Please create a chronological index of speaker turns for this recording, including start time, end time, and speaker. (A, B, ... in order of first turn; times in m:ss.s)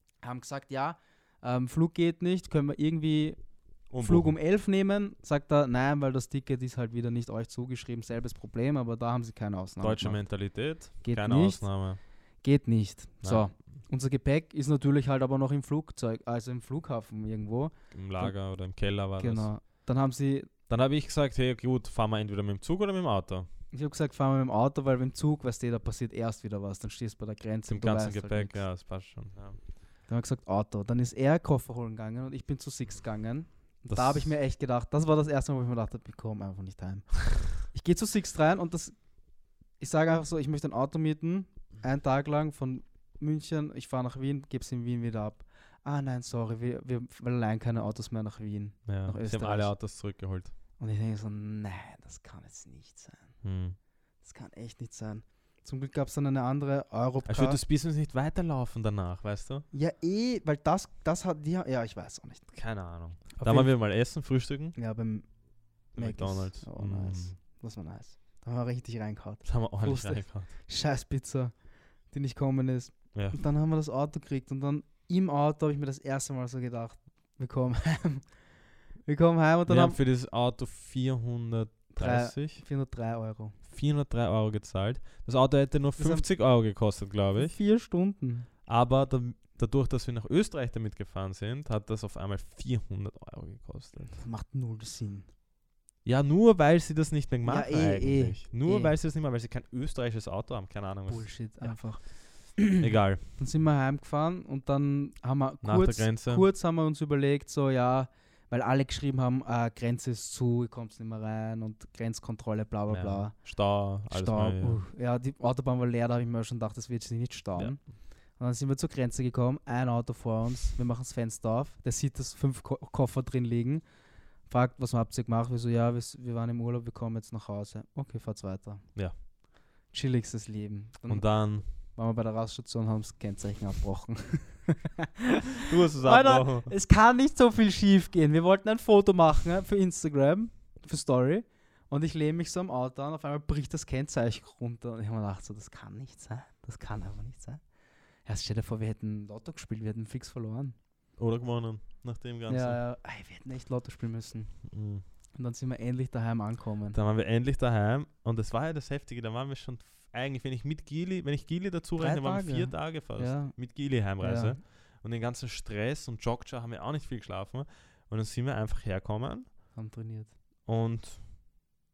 0:00.2-0:03.4 A
0:03.9-0:04.3 B
0:04.0-0:10.3 A
0:09.8-0:12.0 B
0:11.0-0:11.6 A
0:12.4-0:18.3 A
0:17.9-0:19.5 B
0:19.2-0:20.5 A
0:20.7-0:23.5 B
0:23.7-0:28.6 A
0:27.7-0:29.6 B
0:30.1-0:39.0 A
0:33.9-0:34.3 B
0:39.8-0:49.7 A
0:48.9-0:50.5 B
0:50.8-0:53.3 A
0:53.4-0:53.8 B
0:54.2-0:57.6 A
0:57.2-0:59.6 B
0:59.7-1:02.5 A
1:02.5-1:04.8 B
1:03.4-1:03.7 A
1:04.7-1:05.3 A
1:05.9-1:11.5 A
1:05.9-1:07.4 B
1:09.4-1:10.5 B
1:12.1-1:18.3 A
1:13.1-1:13.4 B
1:19.0-1:20.0 A
1:19.7-1:22.6 B
1:21.9-1:23.6 A
1:23.7-1:27.6 B
1:26.0-1:26.3 A
1:27.3-1:28.5 A
1:28.7-1:34.2 B
1:34.1-1:35.3 A
1:36.0-1:41.8 B
1:37.4-1:38.9 A
1:41.1-1:53.4 A
1:42.8-1:43.2 B
1:45.6-1:46.4 B
1:52.9-1:54.8 B
1:54.0-1:57.8 A
1:58.4-2:03.8 A
2:04.5-2:08.8 A
2:09.9-2:27.6 A
2:11.1-2:11.6 B
2:15.6-2:16.7 B
2:28.2-2:30.8 A
2:31.2-2:32.8 B
2:32.5-2:34.7 A
2:34.7-2:35.0 B
2:35.3-2:37.0 A
2:36.9-2:49.5 B
2:42.0-2:44.6 A
2:49.7-2:50.3 A
2:50.7-2:51.3 B